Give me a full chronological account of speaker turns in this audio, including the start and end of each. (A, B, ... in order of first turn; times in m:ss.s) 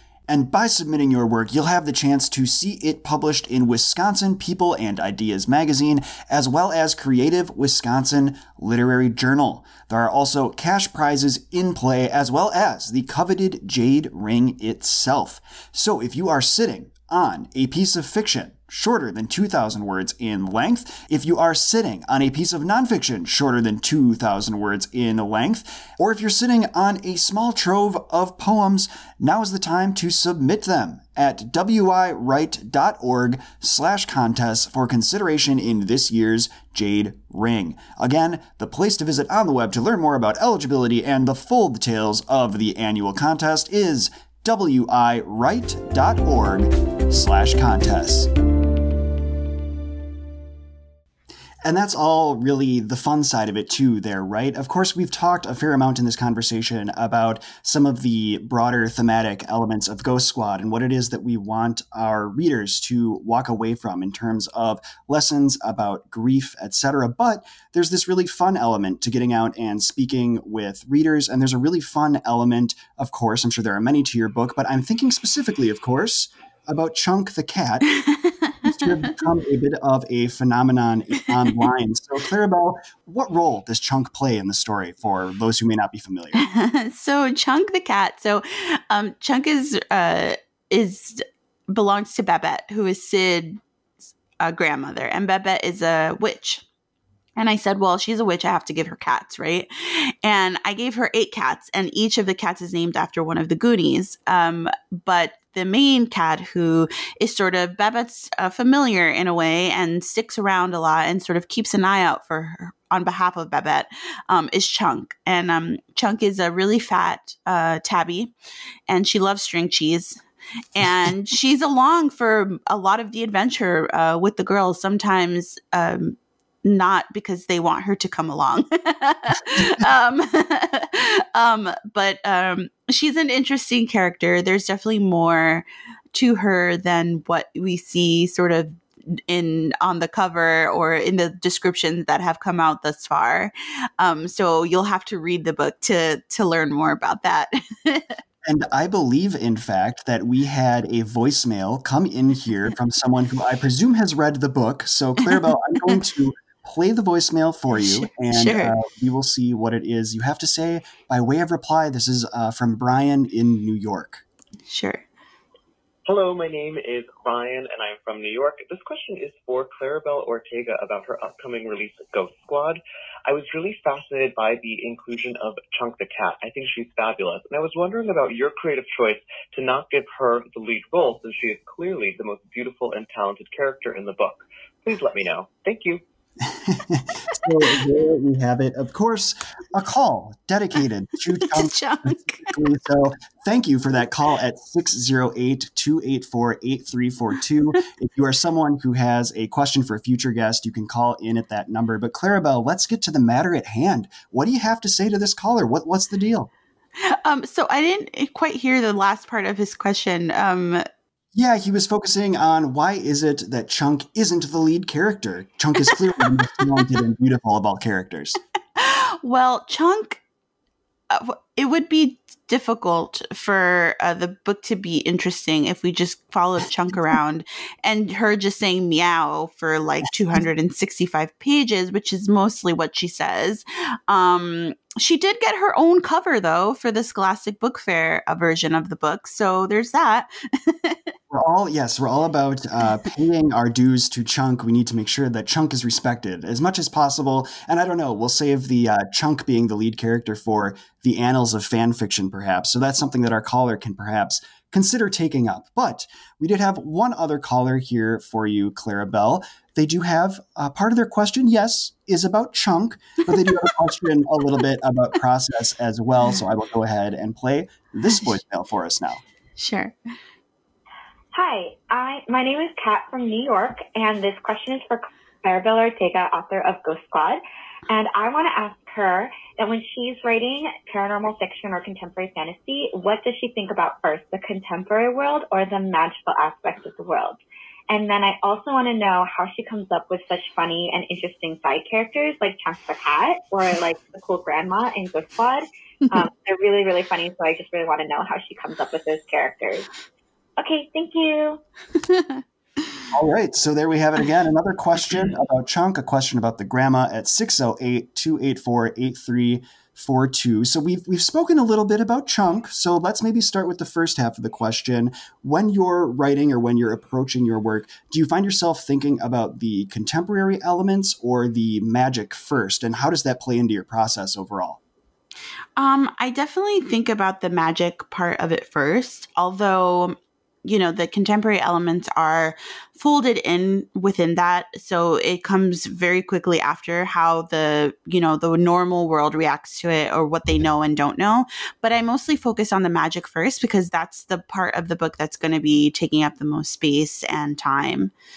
0:00.3-0:48.3 A
0:51.6-1:17.9 A
1:17.9-1:18.9 B
1:18.6-1:26.4 A
1:26.3-1:33.6 B
1:34.4-1:36.6 B
1:37.4-1:58.3 B
1:58.9-2:00.2 B
2:00.7-2:28.2 B
2:28.4-2:44.2 A
2:37.8-2:38.7 B
2:44.7-2:45.0 B
2:46.0-3:06.0 C
3:06.4-3:26.5 A
3:11.4-3:12.5 B
3:27.0-3:30.8 B
3:31.3-3:38.4 A
3:38.8-3:40.2 B
3:41.1-4:01.1 B
4:01.3-4:29.2 A
4:29.6-4:29.9 B
4:31.3-4:59.9 D
5:00.6-5:01.6 D
5:02.0-5:02.4 B
5:03.1-5:24.8 A
5:25.8-5:48.1 B